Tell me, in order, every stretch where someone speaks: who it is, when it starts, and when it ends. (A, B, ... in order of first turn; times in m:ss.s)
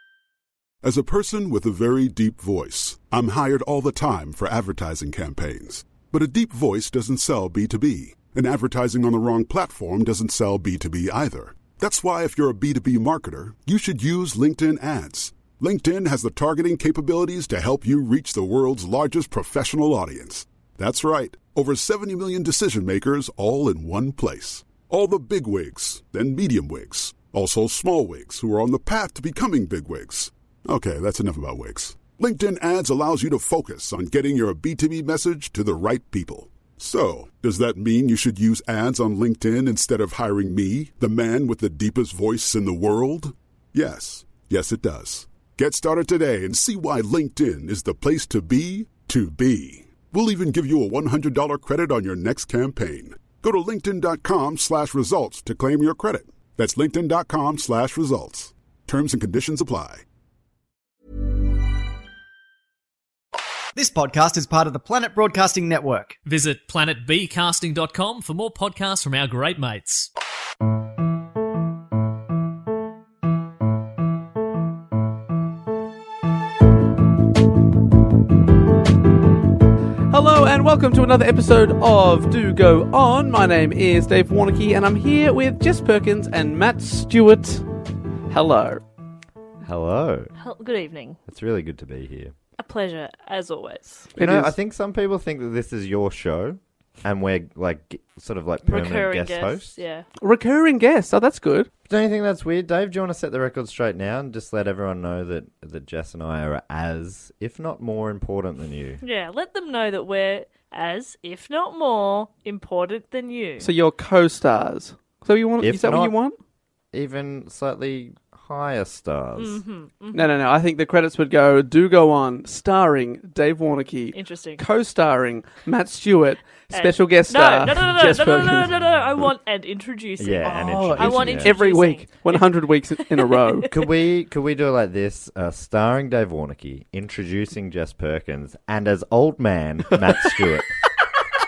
0:00.8-1:00.0 A
1:03.8-1:06.2 B
1:06.2-1:10.1 C
1:20.1-1:27.7 D
1:28.3-1:28.8 D
1:29.6-1:30.3 E
1:30.4-1:31.2 F
1:31.3-1:32.3 E
1:32.6-1:34.1 F
1:34.2-1:34.6 D
1:34.2-1:39.8 E
1:38.7-1:40.0 F
1:40.2-1:41.7 D
1:41.9-1:49.0 E
1:49.0-1:53.7 F
1:53.6-1:56.4 D
1:55.6-1:56.2 E
1:56.9-1:59.6 E
1:59.4-2:00.3 F
2:00.1-2:08.7 D
2:04.1-2:04.6 F
2:06.7-2:12.4 F
2:10.2-2:11.6 E
2:10.6-2:13.7 D
2:13.2-2:13.7 F
2:13.7-2:20.7 E